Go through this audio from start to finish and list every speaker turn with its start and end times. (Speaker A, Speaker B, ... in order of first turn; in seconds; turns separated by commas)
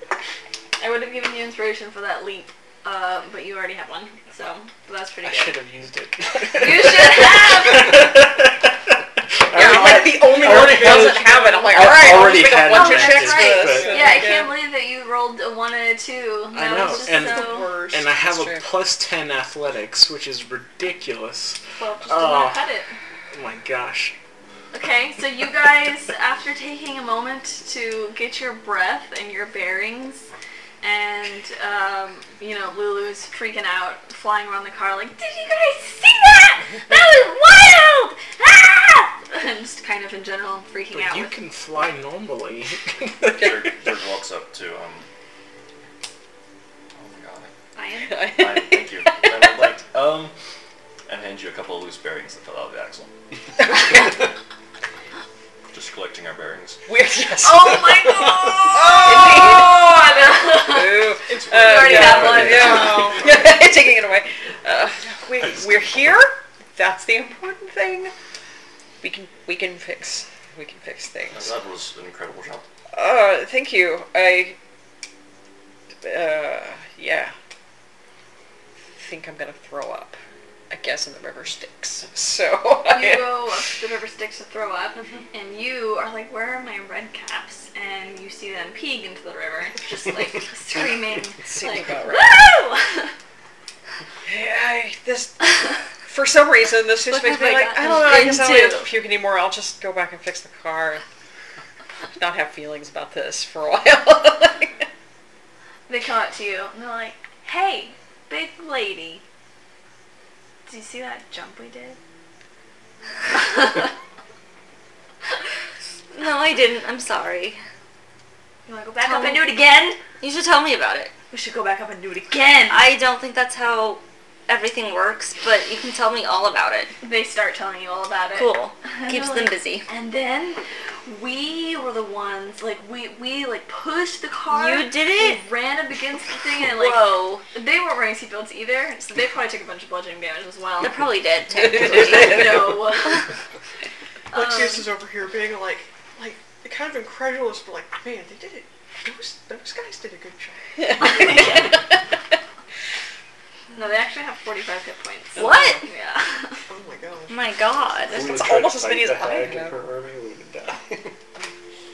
Speaker A: 0.8-5.6, Speaker B: 5.2-8.8, Speaker A: 6.5-8.1, Speaker B: 9.4-14.0, Speaker C: 9.5-14.6, Speaker D: 9.6-11.8, Speaker E: 10.8-11.1, Speaker A: 12.7-17.7, Speaker D: 13.8-14.2, Speaker B: 16.5-22.6, Speaker D: 17.0-18.0, Speaker C: 18.2-18.6, Speaker A: 21.8-22.9, Speaker B: 23.3-24.1, Speaker A: 24.7-30.3, Speaker A: 30.8-41.3, Speaker B: 40.9-43.6, Speaker F: 43.3-45.1, Speaker F: 46.9-47.5, Speaker A: 47.7-48.2, Speaker C: 48.1-49.6, Speaker F: 48.4-50.3, Speaker F: 51.1-53.1, Speaker F: 55.7-56.8, Speaker C: 56.9-59.9, Speaker A: 57.4-63.1, Speaker D: 58.8-59.4, Speaker C: 60.5-68.1, Speaker D: 61.3-63.3, Speaker F: 61.3-63.6, Speaker F: 65.4-65.9, Speaker C: 69.0-71.5, Speaker F: 71.3-72.7, Speaker C: 72.9-74.6, Speaker C: 76.0-77.3, Speaker C: 79.0-80.2, Speaker C: 80.7-83.5, Speaker A: 82.8-93.1, Speaker C: 91.4-92.4, Speaker C: 94.2-101.0, Speaker A: 97.1-98.9, Speaker G: 97.1-98.8, Speaker C: 102.2-104.8, Speaker A: 105.9-109.2, Speaker A: 110.7-112.0, Speaker A: 113.4-113.8, Speaker G: 116.1-117.6, Speaker A: 118.7-120.0, Speaker G: 119.0-119.6, Speaker G: 120.2-121.1, Speaker A: 121.3-122.9, Speaker G: 122.7-126.9, Speaker A: 127.0-141.0, Speaker G: 128.3-129.9, Speaker G: 134.5-135.4, Speaker G: 136.6-137.4, Speaker G: 140.8-143.2, Speaker C: 141.5-142.9, Speaker A: 141.7-143.3, Speaker A: 144.3-144.8, Speaker D: 144.3-150.8, Speaker C: 150.8-151.8, Speaker A: 151.0-151.8, Speaker A: 153.7-156.7, Speaker C: 155.3-155.8, Speaker G: 155.4-155.8, Speaker D: 156.7-157.9, Speaker G: 157.3-158.3, Speaker E: 158.1-161.2, Speaker C: 158.1-159.8